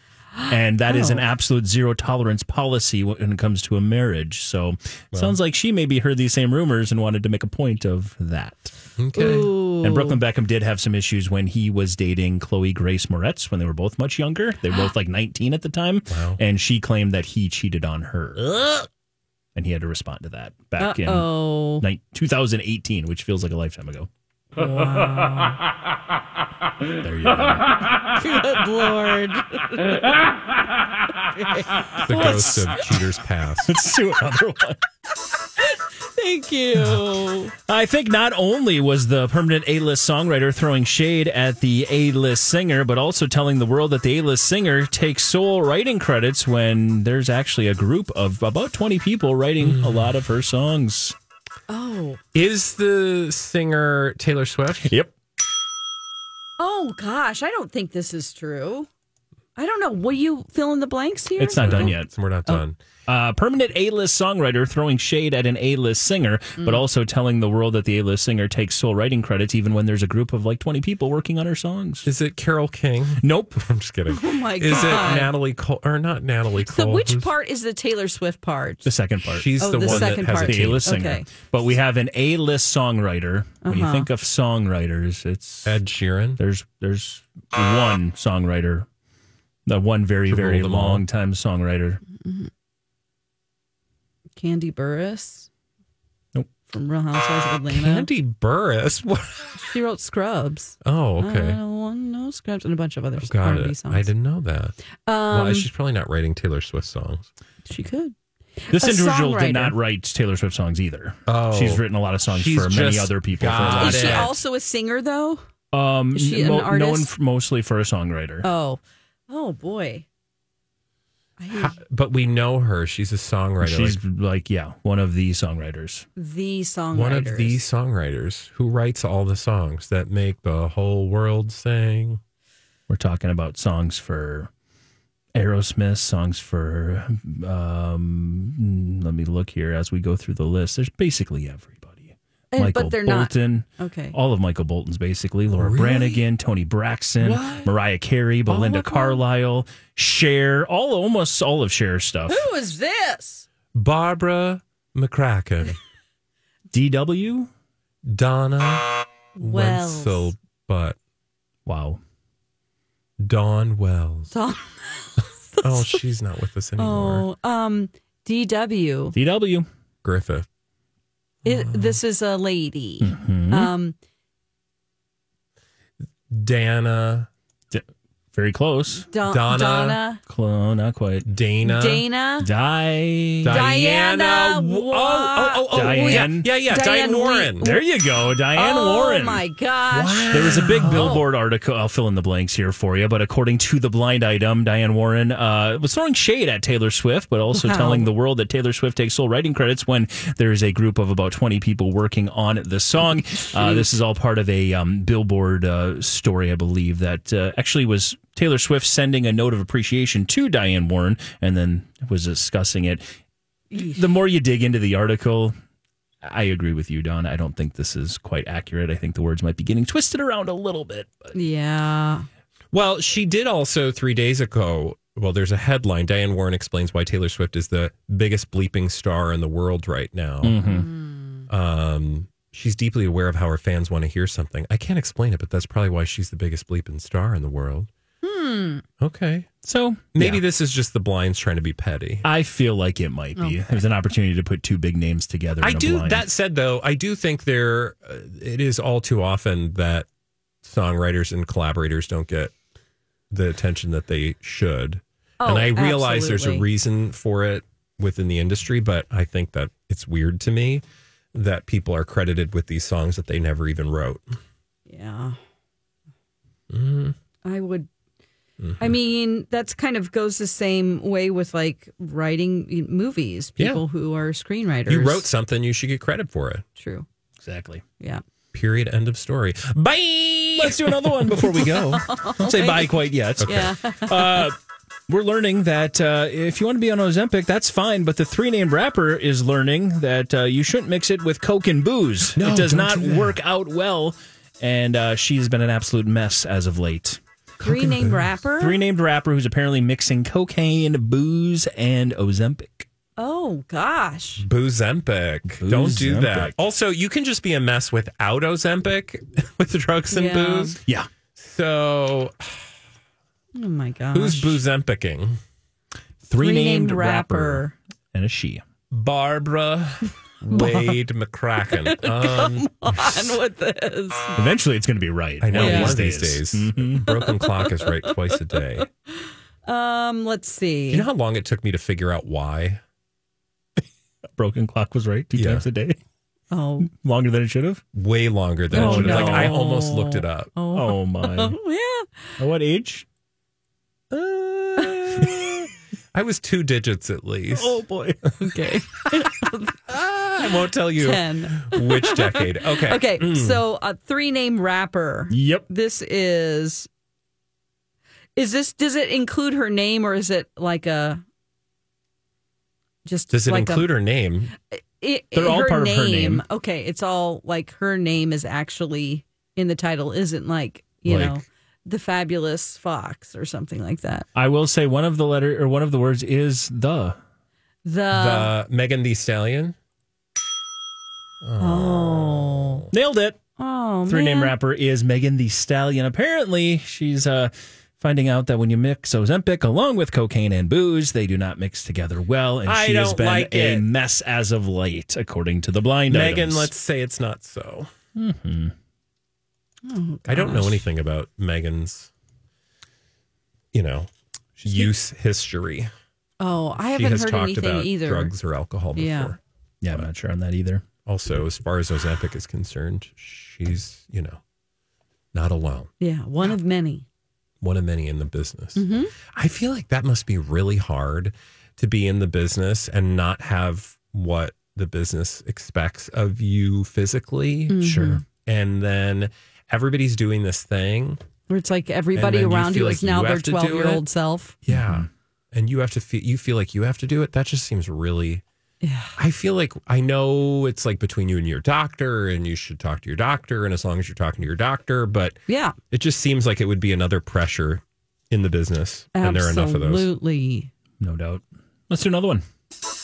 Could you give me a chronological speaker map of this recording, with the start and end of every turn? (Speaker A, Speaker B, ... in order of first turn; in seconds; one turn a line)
Speaker A: 0.5-18.8
Speaker B: 0.9-1.2
Speaker C: 9.0-9.5
Speaker B: 9.2-10.2
Speaker C: 16.1-16.4
Speaker A: 19.6-24.1
Speaker B: 20.8-21.8
Speaker B: 24.6-25.6
Speaker A: 27.0-27.8
Speaker B: 28.1-30.0
Speaker B: 31.4-32.7
Speaker C: 32.0-33.7
Speaker A: 32.1-32.6
Speaker A: 33.7-34.8
Speaker B: 36.1-37.5
Speaker A: 37.7-51.1
Speaker C: 49.6-50.1
Speaker B: 51.7-52.2
Speaker C: 52.3-54.9
Speaker A: 54.8-55.1
Speaker B: 56.6-58.9
Speaker B: 59.6-62.6
Speaker A: 61.4-62.1
Speaker C: 61.5-62.8
Speaker A: 63.1-72.1
Speaker B: 66.6-66.8
Speaker C: 72.1-77.3
Speaker A: 73.2-73.6
Speaker B: 74.1-75.3
Speaker B: 76.6-78.9
Speaker A: 78.8-85.8
Speaker C: 79.2-80.8
Speaker B: 79.6-81.3
Speaker B: 83.6-84.1
Speaker C: 85.7-86.4
Speaker A: 86.4-88.9
Speaker A: 89.7-92.0
Speaker C: 90.3-91.0
Speaker B: 92.2-92.5
Speaker B: 94.4-95.5
Speaker B: 96.7-98.1
Speaker C: 97.7-99.6
Speaker B: 99.6-104.1
Speaker C: 100.8-101.6
Speaker C: 103.2-104.8
Speaker B: 105.1-105.7
Speaker C: 105.3-107.3
Speaker B: 107.7-109.8
Speaker A: 108.7-114.3
Speaker C: 111.3-114.4
Speaker B: 113.6-115.4
Speaker A: 115.7-118.5
Speaker B: 116.1-117.1
Speaker B: 118.4-120.0
Speaker B: 121.4-121.8
Speaker C: 121.5-124.0
Speaker A: 123.6-126.1
Speaker B: 126.2-127.6
Speaker C: 126.9-132.2
Speaker A: 132.9-134.5
Speaker A: 135.3-152.5
Speaker B: 142.5-144.2
Speaker C: 145.6-146.2
Speaker C: 147.2-147.7
Speaker B: 148.5-149.2
Speaker B: 152.3-153.4
Speaker C: 153.7-155.8
Speaker A: 156.7-157.5
Speaker C: 158.1-161.0
Speaker B: 159.4-160.3
Speaker A: 161.7-162.0
Speaker C: 163.2-164.3
Speaker B: 164.3-166.0
Speaker C: 165.6-167.3
Speaker B: 166.8-169.2
Speaker A: 169.1-169.7
Speaker C: 170.0-170.5
Speaker C: 171.4-172.0
Speaker B: 171.4-173.9
Speaker A: 173.0-173.7
Speaker C: 176.3-177.3
Speaker A: 177.7-179.1
Speaker B: 179.1-180.2
Speaker C: 179.2-180.0
Speaker A: 180.3-181.3
Speaker C: 181.2-182.0
Speaker B: 181.6-182.5
Speaker A: 182.4-183.6
Speaker C: 183.4-187.7
Speaker B: 183.4-187.8
Speaker A: 185.7-186.5
Speaker A: 187.6-213.1
Speaker B: 188.5-191.3
Speaker C: 190.1-191.2
Speaker B: 197.5-198.1
Speaker B: 203.5-203.9
Speaker B: 213.7-214.1
Speaker A: 213.8-215.6
Speaker A: 216.2-221.3
Speaker B: 221.3-222.3
Speaker C: 222.7-230.6
Speaker A: 230.4-230.9
Speaker B: 230.6-231.5
Speaker C: 231.5-237.9
Speaker B: 238.2-238.8
Speaker C: 239.0-239.5
Speaker A: 239.6-240.4
Speaker C: 240.1-242.2
Speaker A: 242.2-246.2
Speaker C: 245.6-250.1
Speaker C: 250.6-252.5
Speaker C: 253.3-264.3
Speaker B: 255.4-256.6
Speaker B: 264.9-265.4
Speaker C: 266.7-267.2
Speaker B: 267.4-267.9
Speaker C: 268.6-268.9
Speaker B: 268.8-275.3
Speaker C: 274.9-276.6
Speaker B: 276.8-277.1
Speaker A: 277.4-277.8
Speaker C: 278.5-282.0
Speaker A: 280.6-284.6
Speaker B: 281.9-284.5
Speaker C: 283.4-283.7
Speaker A: 285.1-302.9
Speaker C: 292.4-293.4
Speaker B: 297.6-298.8
Speaker B: 303.2-304.4
Speaker C: 304.4-310.8
Speaker A: 305.6-306.6
Speaker B: 310.1-310.8
Speaker C: 311.4-312.7
Speaker B: 313.6-314.6
Speaker C: 314.1-315.4
Speaker A: 316.3-318.6
Speaker B: 316.4-317.8
Speaker C: 318.9-323.2
Speaker B: 320.6-320.9
Speaker B: 321.8-324.4
Speaker A: 324.4-327.1
Speaker C: 325.4-328.9
Speaker B: 325.5-326.0
Speaker B: 327.1-328.6
Speaker B: 329.2-331.1
Speaker C: 330.9-332.8
Speaker A: 334.4-336.0
Speaker C: 335.4-335.7
Speaker B: 336.5-336.9
Speaker A: 336.8-337.8
Speaker C: 337.9-340.5
Speaker A: 338.7-339.6
Speaker B: 338.7-342.3
Speaker A: 340.7-341.6
Speaker A: 342.4-343.1
Speaker C: 344.1-347.8
Speaker B: 344.8-345.1
Speaker A: 347.5-348.3
Speaker B: 348.4-349.8
Speaker C: 349.9-353.6
Speaker B: 350.4-356.9
Speaker A: 355.3-355.6
Speaker B: 358.4-361.2
Speaker B: 363.1-363.9
Speaker C: 363.3-364.5
Speaker B: 365.0-374.3
Speaker A: 365.4-366.4
Speaker A: 371.1-371.4
Speaker A: 374.4-377.2
Speaker B: 377.9-378.5
Speaker C: 378.1-379.8
Speaker C: 381.4-382.9
Speaker B: 381.6-382.9
Speaker A: 382.9-383.4
Speaker B: 383.6-384.5
Speaker A: 384.1-396.7
Speaker C: 392.6-393.9
Speaker C: 396.1-397.9
Speaker A: 398.1-398.7
Speaker B: 399.9-400.9
Speaker C: 400.3-402.1
Speaker C: 403.7-404.1
Speaker A: 404.6-404.9
Speaker C: 404.6-405.9
Speaker B: 406.4-408.3
Speaker C: 406.8-409.4
Speaker B: 408.9-409.4
Speaker A: 409.8-410.8
Speaker C: 411.1-414.4
Speaker C: 415.3-415.9
Speaker B: 416.0-417.1
Speaker C: 417.6-431.2
Speaker B: 418.8-419.1
Speaker B: 427.7-428.2
Speaker A: 427.8-428.2
Speaker B: 431.5-434.6
Speaker C: 432.1-434.1
Speaker C: 434.6-438.4
Speaker A: 434.7-435.1
Speaker B: 438.8-439.1
Speaker C: 439.2-445.4
Speaker B: 445.5-445.8
Speaker C: 445.9-450.1
Speaker B: 449.1-450.7
Speaker A: 451.0-452.4